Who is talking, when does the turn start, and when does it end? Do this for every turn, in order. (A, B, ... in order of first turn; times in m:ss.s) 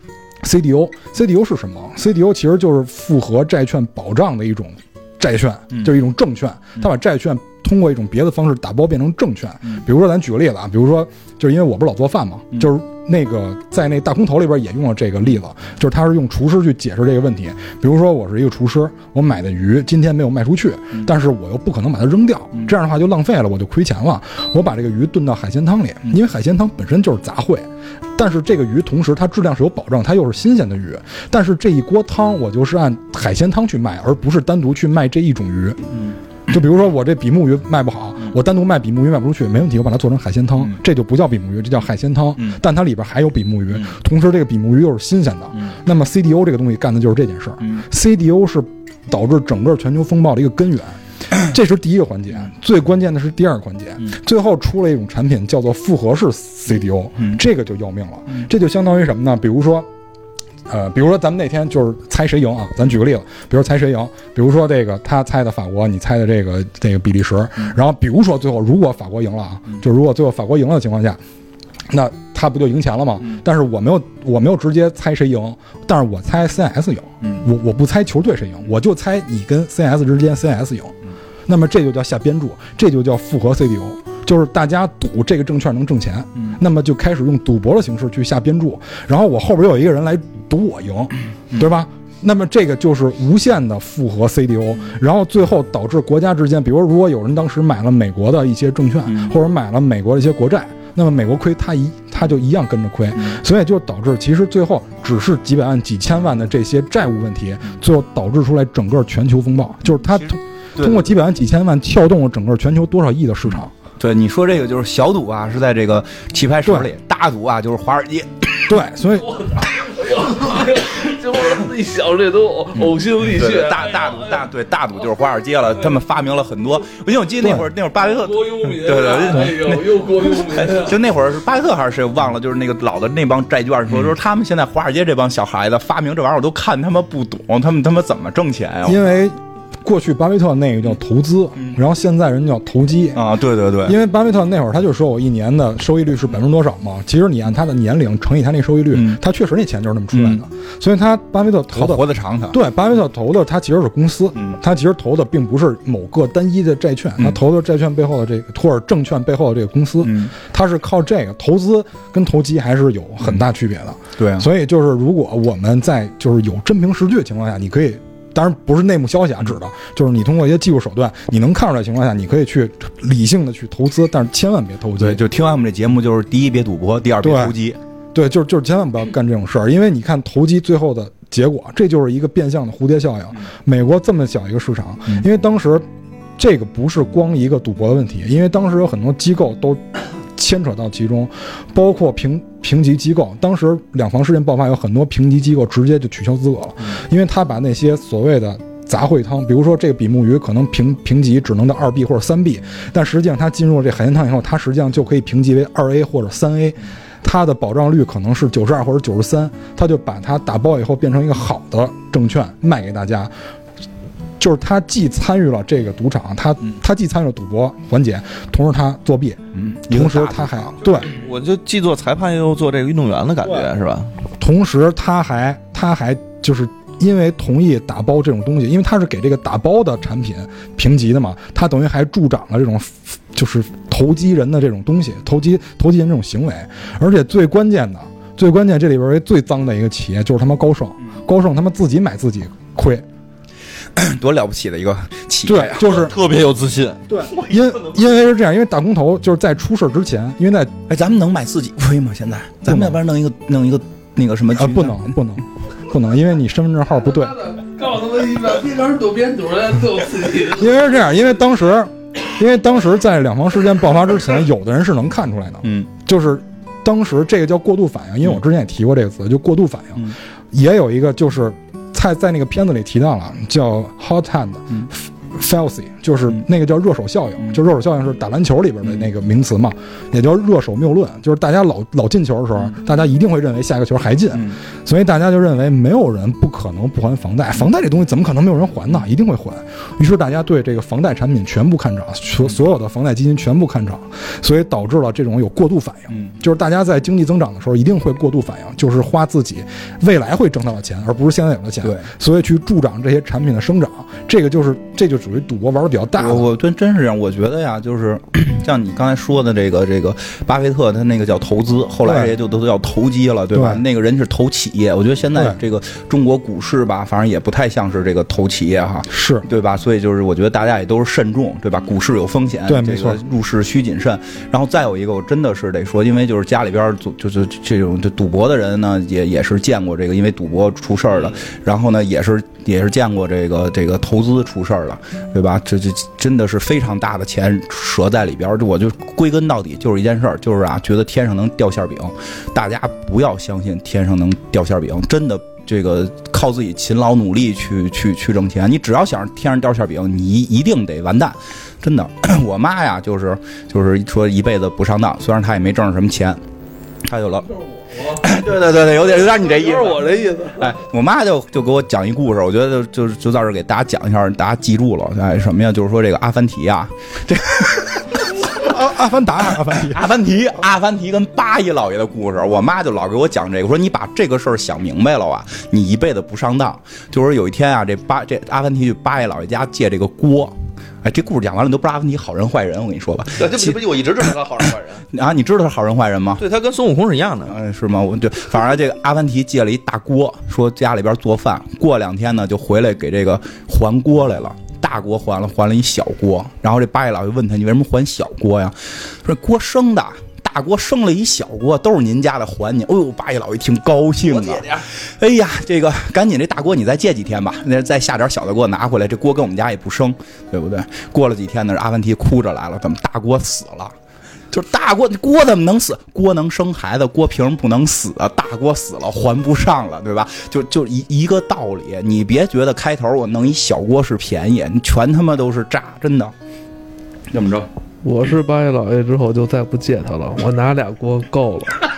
0:00.4-0:35.8 A
0:36.5-0:59.9 A
1:00.7-1:11.2 A
1:11.9-1:20.9 A
1:21.5-1:53.7 A
1:39.0-1:39.3 B
1:50.8-1:51.1 B
1:53.5-1:58.7 B
1:56.6-1:56.9 A
1:58.7-1:59.3 A
1:59.2-2:04.4 C
2:02.8-2:19.0 B
2:07.4-2:07.7 A
2:08.0-2:11.0 C
2:18.8-2:23.2 A
2:23.1-2:24.0 B
2:23.8-2:55.2 A
2:28.9-2:29.2 B
2:30.1-2:30.4 B
2:31.7-2:32.6 B
2:40.0-2:40.3 B
2:44.2-2:44.5 B
2:55.0-2:57.8 B
2:57.2-2:57.6 A
2:58.1-3:05.8 A
3:06.4-3:33.3 A
3:34.4-3:41.1 A
3:39.5-3:40.6 B
3:40.8-3:44.1 D
3:44.4-4:03.0 A
4:03.9-4:06.0 B
4:05.4-4:06.1 A
4:05.8-4:08.1 D
4:07.1-4:10.7 A
4:10.9-4:15.1 B
4:12.6-4:13.0 A
4:14.6-4:17.4 A
4:17.2-4:20.7 C
4:20.5-5:06.5 A
4:25.6-4:25.9 B
5:01.8-5:02.1 B
5:06.2-5:56.4 B
5:12.0-5:12.3 A
5:13.5-5:13.8 A
5:19.1-5:19.5 A
5:22.6-5:23.2 A
5:57.0-5:57.5 B
5:57.9-5:58.2 C
5:58.1-6:00.0 B
5:59.4-6:00.7 C
6:00.6-6:08.6 B
6:08.5-6:10.1 A
6:09.6-6:24.4 B
6:23.4-6:25.0 D
6:25.1-6:26.4 B
6:26.4-6:27.5 D
6:27.5-6:53.9 B
6:44.3-6:44.8 D
6:54.5-7:06.3 B
7:07.3-7:07.7 B
7:08.0-7:11.8 C